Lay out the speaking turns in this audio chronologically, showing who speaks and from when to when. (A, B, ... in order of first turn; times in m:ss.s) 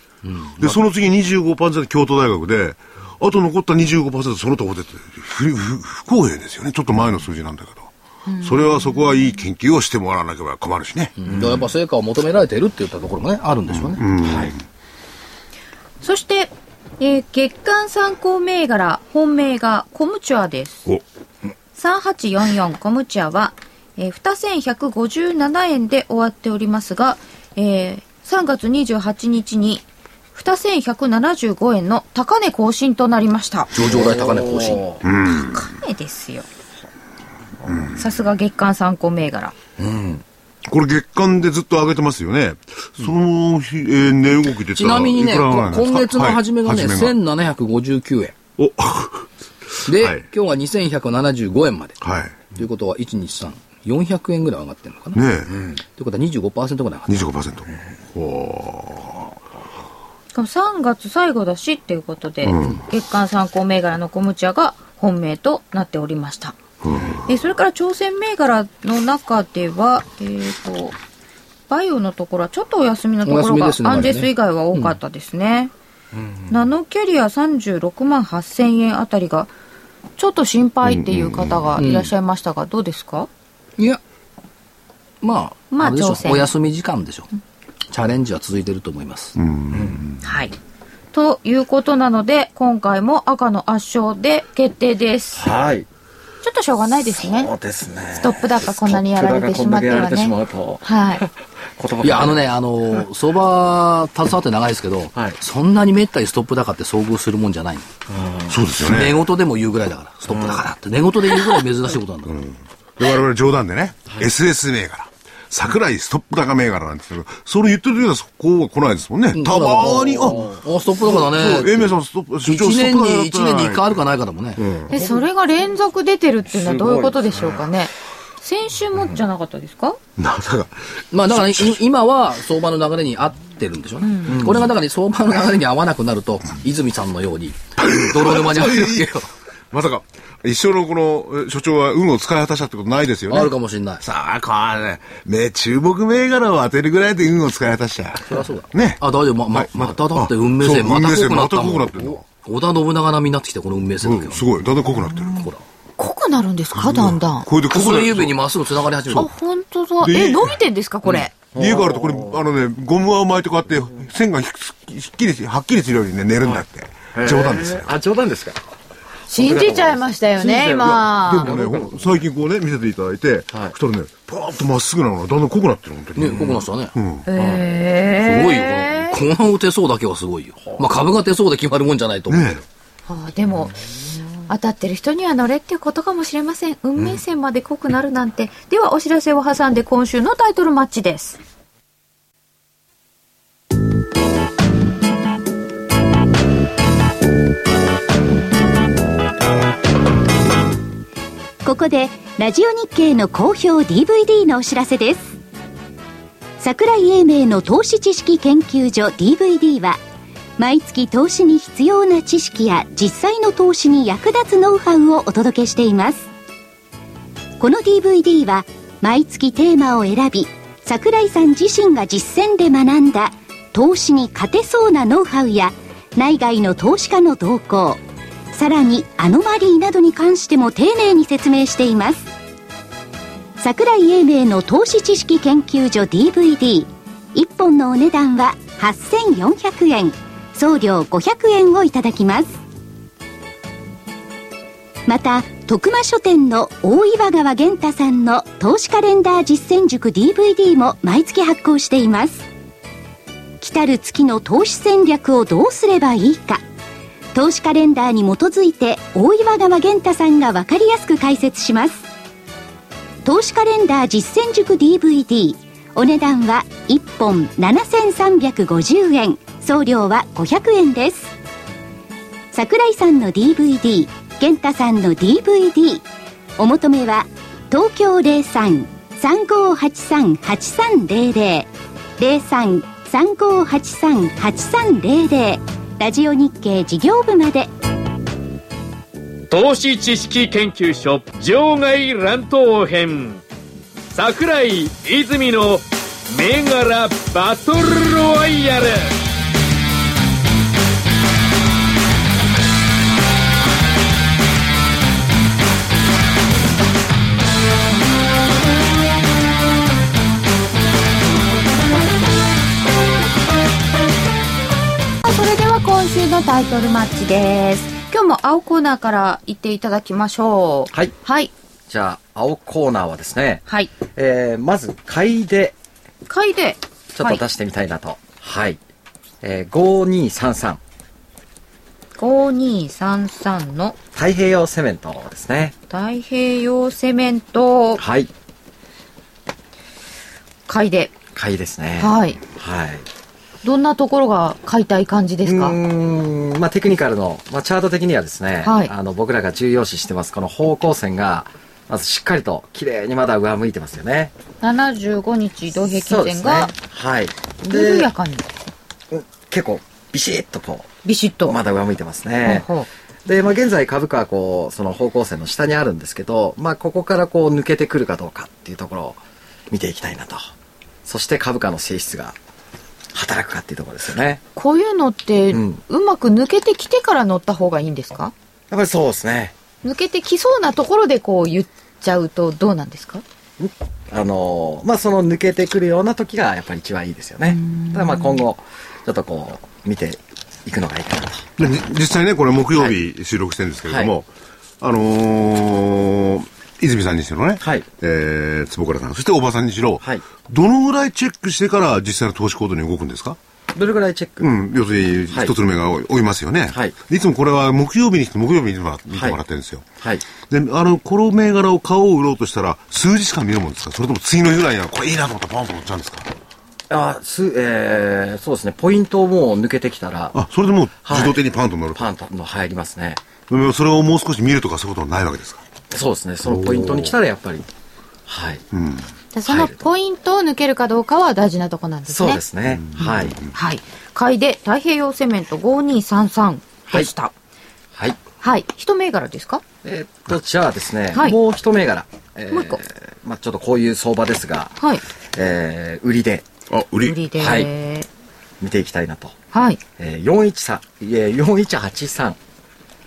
0:00.2-0:00.8 A
0:00.6-0:11.1 B
0:08.3-0:09.2 C
0:11.2-0:14.0 A
0:11.3-0:11.6 D
0:13.7-0:14.6 B
0:14.2-0:14.5 D
0:16.0-0:20.9 C
0:21.8-0:33.7 C
0:33.7-0:34.8 A
0:33.8-0:35.0 D
0:35.0-0:35.7 B
0:35.3-0:36.4 C
0:37.9-0:39.5 C
0:39.8-0:40.2 D
0:40.6-0:47.1 B
0:44.7-0:48.4 A
0:48.6-0:49.3 B
0:49.8-0:50.2 B
0:49.8-0:52.0 A
0:52.0-0:52.5 B
0:52.5-0:55.2 A
0:55.1-0:55.6 B
0:56.0-0:57.3 A
0:57.1-0:59.3 B
1:00.3-1:06.6 C
1:02.4-1:02.8 B
1:06.8-1:07.2 B
1:07.2-1:11.0 C
1:11.7-1:15.7 C
1:13.2-1:15.0 A
1:16.1-1:16.6 D
1:16.5-1:19.5 C
1:20.2-1:23.3 C
1:20.8-1:21.7 B
1:21.8-1:22.1 A
1:25.2-1:27.3 A
1:25.7-1:26.5 C
1:27.9-1:29.4 A
1:29.4-1:30.2 B
1:29.7-1:30.0 D
1:30.2-1:30.5 C
1:31.1-1:35.5 C
1:35.3-1:35.9 D
1:36.4-1:37.5 C
1:37.2-1:42.4 D
1:38.2-1:41.2 C
1:42.0-1:47.9 A
1:48.1-1:48.6 D
1:48.5-1:49.2 B
1:48.8-1:52.3 A
1:50.3-1:50.6 D
1:52.2-2:03.9 B
1:59.3-2:04.6 A
2:00.2-2:00.6 D
2:04.6-2:05.0 B
2:04.9-2:10.0 C
2:06.5-2:07.6 D
2:10.2-2:11.8 B
2:11.1-2:19.3 A
2:14.0-2:14.5 C
2:14.3-2:14.7 D
2:17.8-2:19.2 B
2:19.7-2:32.2 B
2:23.3-2:24.0 A
2:28.3-2:34.4 A
2:34.0-2:35.5 B
2:35.3-2:35.6 A
2:36.0-2:37.5 C
2:36.7-2:38.4 B
2:37.7-2:39.3 A
2:39.1-2:41.3 C
2:40.0-2:47.9 B
2:41.5-2:42.4 D
2:46.4-2:48.6 D
2:49.3-2:51.5 C
2:49.3-2:52.1 D
2:50.7-2:57.3 B
2:56.2-2:56.9 A
2:57.2-2:59.2 C
2:57.4-2:57.7 D
2:58.2-3:02.6 A
3:02.3-3:02.6 B
3:03.1-3:03.8 C
3:04.4-3:11.4 C
3:21.6-3:25.4 E
3:26.6-3:30.0 E
3:30.6-3:36.3 E
3:37.6-3:48.0 E
3:48.5-3:52.3 E
3:53.6-4:02.6 E
4:05.1-4:12.4 E
4:13.6-4:16.6 E
4:17.3-4:22.1 E
4:23.2-4:31.3 E
4:32.5-4:36.0 E
4:36.6-4:47.7 E
4:49.5-4:53.4 F
4:54.1-4:59.1 F
5:15.2-5:21.5 C
5:21.9-5:25.8 D
5:23.7-5:23.9 C
5:26.3-5:27.4 C
5:27.1-5:28.8 D
5:29.4-5:30.8 D
5:32.2-5:34.0 C
5:34.1-5:35.7 D
5:35.9-5:38.0 C
5:38.0-5:38.3 D
5:40.7-5:41.1 C
5:41.3-5:43.0 D
5:42.0-5:42.4 C
5:43.6-5:45.8 C
5:45.4-5:54.3 D
5:48.6-5:48.9 C
5:54.6-5:56.7 C
5:55.7-5:58.1 D
5:57.6-5:58.5 C
5:59.1-6:00.9 D
6:01.0-6:01.6 C
6:01.5-6:02.6 D
6:02.4-6:02.9 C
6:03.2-6:09.2 D
6:09.7-6:10.5 D
6:11.0-6:12.4 D
6:13.1-6:14.4 D
6:14.5-6:18.3 C
6:15.5-6:15.8 D
6:18.7-6:19.5 D
6:19.8-6:23.2 C
6:23.6-6:31.4 D
6:27.5-6:28.4 C
6:31.6-6:34.3 B
6:34.8-6:43.4 B
6:43.7-6:44.5 D
6:44.4-6:49.8 B
6:49.1-6:49.4 D
6:50.4-6:56.3 B
6:56.9-7:00.4 D
7:00.3-7:02.0 B
7:01.0-7:01.4 D
7:01.9-7:03.2 D
7:03.5-7:05.6 B
7:05.9-7:07.7 D
7:06.4-7:07.2 B
7:08.3-7:08.6 D
7:08.7-7:09.1 B
7:09.3-7:12.4 C
7:09.4-7:09.8 D
7:12.1-7:13.4 D
7:12.7-7:13.5 B
7:13.0-7:17.3 C
7:18.4-7:19.6 C
7:19.8-7:24.8 D
7:22.5-7:22.8 C
7:25.3-7:26.4 D
7:26.7-7:27.2 B
7:27.0-7:28.1 C
7:27.4-7:27.7 D
7:28.6-7:29.3 D
7:29.5-7:29.8 C
7:30.0-7:32.4 D